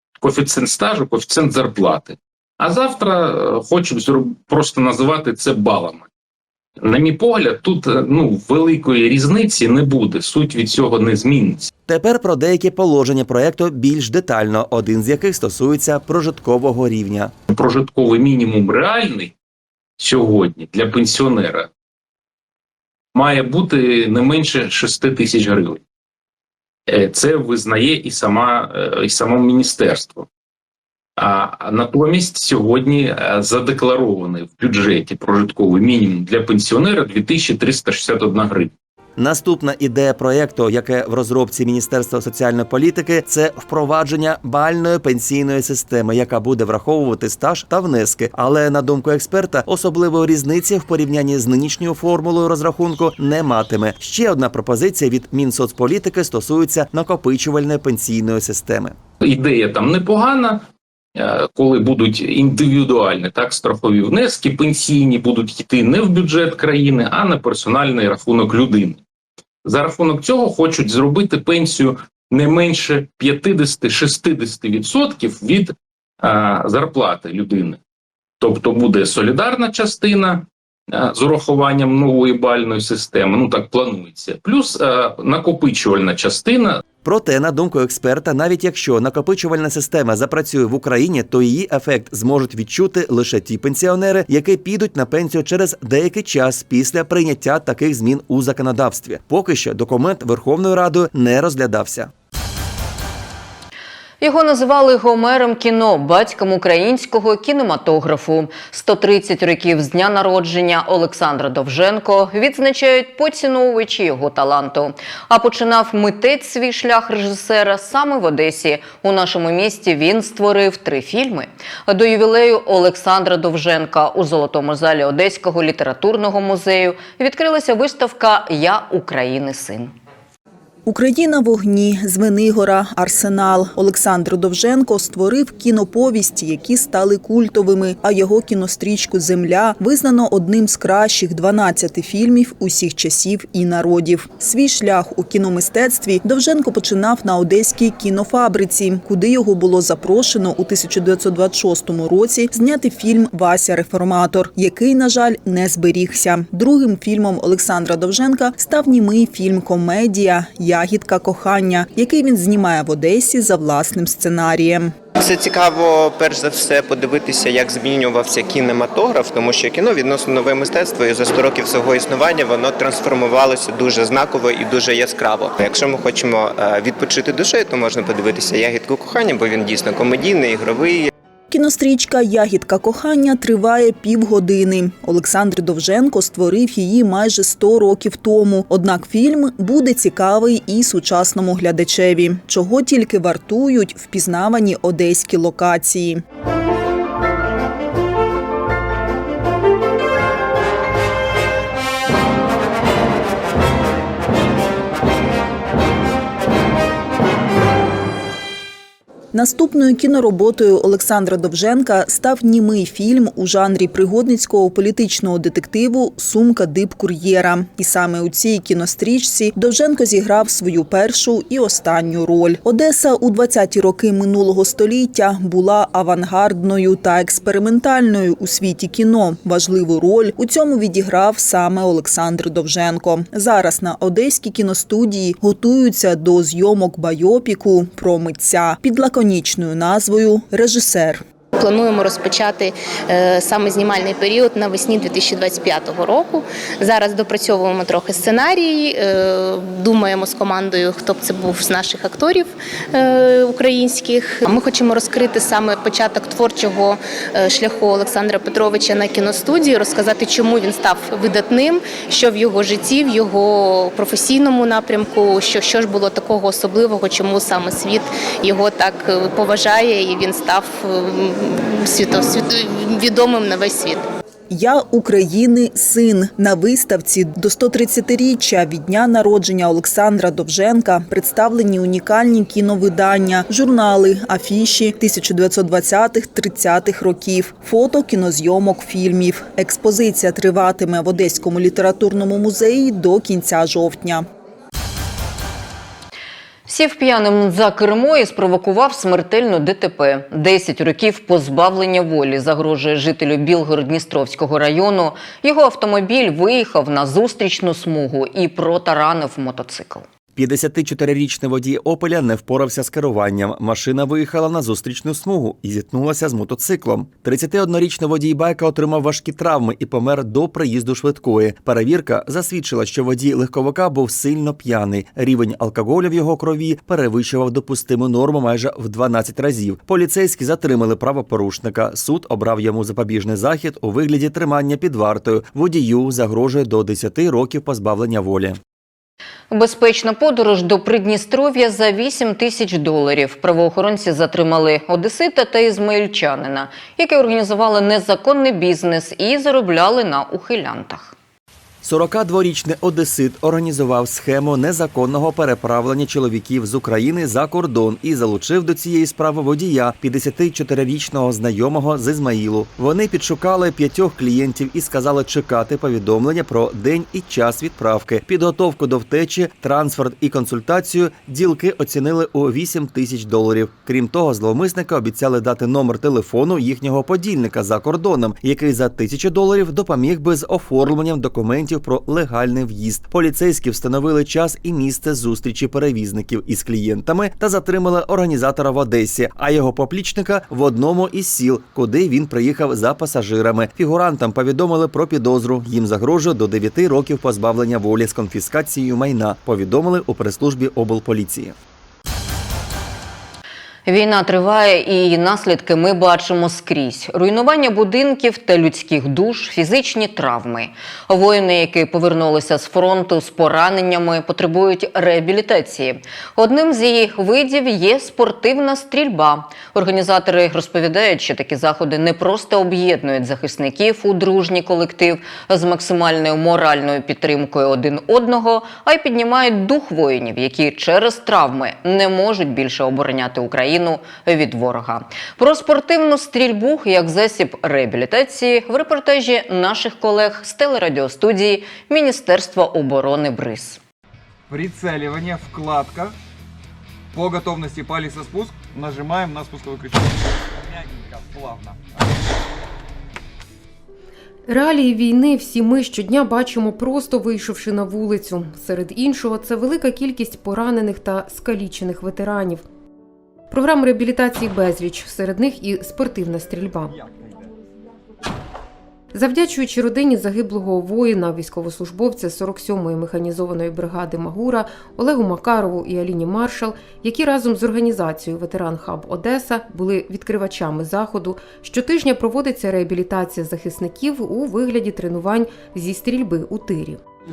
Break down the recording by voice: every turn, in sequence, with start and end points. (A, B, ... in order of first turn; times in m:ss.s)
0:00.2-0:06.1 A
0:06.8-0:11.7 A
0:11.9-0:17.3 B
0:17.5-0:19.3 A
0:20.0-0:21.7 A
0:23.1-0:25.8 A
0:26.9-0:30.3 A
0:31.2-0:38.7 A
0:39.2-0:59.0 B
0:59.2-1:09.0 A
1:09.6-1:17.8 A
1:18.4-1:26.8 A
1:27.0-1:42.1 B
1:44.2-2:09.9 C
2:10.9-2:45.0 D
2:45.2-3:01.1 E
3:01.5-3:16.2 D
3:29.3-4:01.2 D
4:01.6-4:34.0 F
4:34.5-4:54.3 D
4:56.7-5:10.0 C
5:10.4-5:38.6 B
5:39.5-5:51.2 C
5:51.8-6:41.6 B
6:43.9-7:23.8 C
7:24.5-7:26.2 G
7:27.1-7:32.0 G
7:34.5-7:42.6 H
7:43.5-7:47.0 H
7:49.1-8:07.0 H